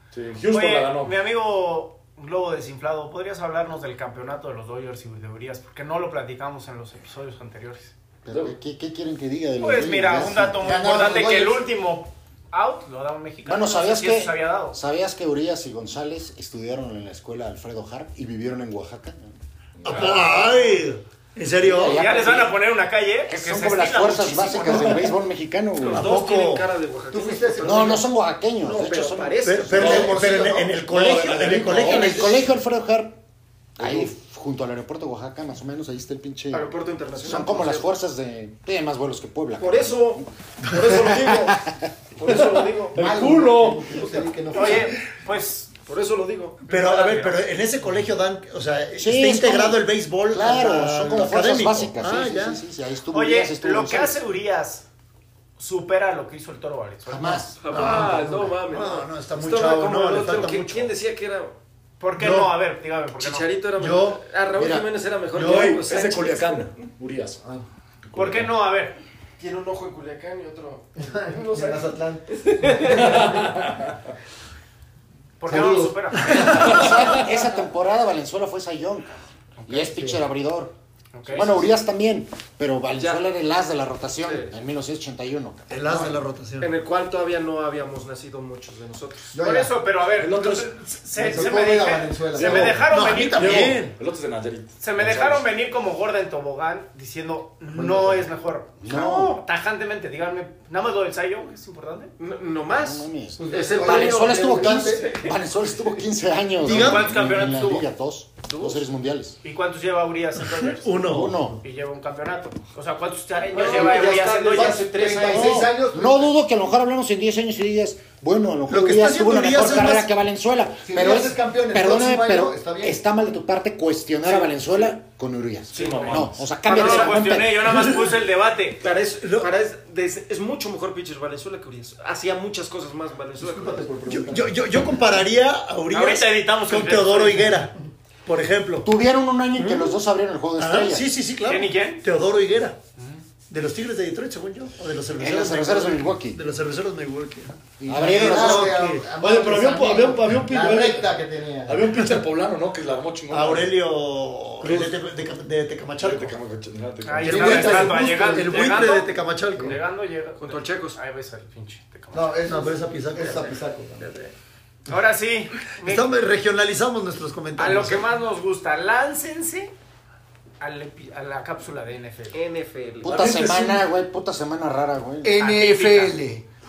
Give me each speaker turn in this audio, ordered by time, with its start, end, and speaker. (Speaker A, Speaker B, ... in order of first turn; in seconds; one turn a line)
Speaker A: 0.1-1.1
Speaker B: 0.5-7.9
Speaker C: 8.2-10.6
Speaker B: 9.6-14.8
Speaker D: 10.6-11.6
Speaker C: 13.5-19.4
Speaker E: 19.8-22.1
Speaker C: 21.6-22.6
Speaker B: 21.8-25.1
Speaker C: 23.3-26.1
Speaker A: 24.6-25.1
Speaker F: 25.8-28.0
Speaker E: 25.8-26.7
Speaker D: 27.1-28.0
Speaker C: 27.6-29.5
Speaker F: 28.6-30.0
Speaker E: 29.4-32.5
Speaker D: 29.7-30.7
Speaker A: 29.8-30.2
Speaker A: 30.9-32.3
Speaker C: 31.1-33.2
Speaker C: 33.8-36.7
Speaker F: 36.5-37.9
Speaker C: 37.2-40.3
Speaker F: 39.6-43.0
Speaker C: 40.8-41.9
Speaker A: 42.3-43.9
Speaker D: 43.0-45.0
Speaker B: 44.5-45.7
Speaker F: 45.9-46.6
Speaker E: 46.6-52.6
Speaker B: 46.7-47.5
Speaker C: 49.0-54.2
Speaker B: 53.1-54.8
Speaker B: 55.6-57.5
Speaker C: 57.1-57.6
Speaker F: 57.6-61.5
Speaker E: 57.7-61.0
Speaker D: 57.7-58.5
Speaker B: 62.0-63.5
Speaker E: 62.2-62.6
Speaker F: 63.2-66.9
Speaker E: 63.8-64.2
Speaker C: 64.6-64.9
Speaker E: 65.3-65.8
Speaker A: 65.4-67.4
Speaker A: 68.1-68.5
Speaker B: 68.1-69.0
Speaker F: 69.4-73.5
Speaker D: 71.0-73.3
Speaker A: 72.9-74.0
Speaker B: 75.4-76.9
Speaker D: 75.5-75.9
Speaker E: 75.8-76.8
Speaker C: 76.3-79.1
Speaker A: 76.8-77.2
Speaker B: 79.6-80.0
Speaker C: 79.7-80.7
Speaker D: 79.9-80.2
Speaker B: 81.1-81.6
Speaker C: 81.3-85.7
Speaker F: 82.9-83.2
Speaker F: 84.2-84.6
Speaker E: 85.7-86.7
Speaker F: 86.6-89.3
Speaker D: 89.3-89.7
Speaker B: 89.4-93.8
Speaker A: 90.2-90.7
Speaker D: 91.2-92.9
Speaker A: 92.3-95.5
Speaker E: 92.9-93.9
Speaker B: 94.8-102.1
Speaker D: 97.8-98.3
Speaker C: 98.8-99.4
Speaker F: 98.9-99.4
Speaker F: 102.2-105.4
Speaker C: 102.7-109.4
Speaker D: 103.4-105.3
Speaker E: 106.6-107.2
Speaker B: 106.6-107.8
Speaker F: 108.5-108.8
Speaker B: 109.4-111.0
Speaker E: 110.8-111.5
Speaker C: 111.0-111.6
Speaker B: 111.6-115.1
Speaker F: 113.5-115.7
Speaker D: 113.7-116.3
Speaker C: 115.2-128.0
Speaker E: 118.7-120.1
Speaker D: 120.8-123.0
Speaker F: 125.7-127.2
Speaker A: 125.7-126.5
Speaker B: 126.7-128.8
Speaker F: 128.8-133.9
Speaker E: 129.2-129.5
Speaker D: 133.4-134.6
Speaker E: 134.1-137.7
Speaker B: 135.9-137.6
Speaker E: 138.3-138.9
Speaker C: 138.8-141.1
Speaker E: 139.6-139.9
Speaker E: 140.6-142.8
Speaker B: 141.5-142.0
Speaker E: 143.5-149.1
Speaker C: 145.2-146.4
Speaker C: 147.8-148.8
Speaker D: 147.9-152.0
Speaker A: 149.1-151.1
Speaker A: 151.7-153.7
Speaker E: 153.3-156.4
Speaker A: 156.0-158.1
Speaker B: 157.0-162.7
Speaker E: 157.2-159.8
Speaker F: 160.4-161.0
Speaker E: 162.1-163.5
Speaker D: 162.2-164.1
Speaker F: 164.0-164.3
Speaker B: 164.9-166.1
Speaker E: 165.8-168.1
Speaker B: 167.6-169.7
Speaker B: 170.6-172.4
Speaker F: 172.3-173.4
Speaker C: 173.0-175.4
Speaker A: 173.1-173.8
Speaker D: 175.2-176.4
Speaker B: 175.4-176.2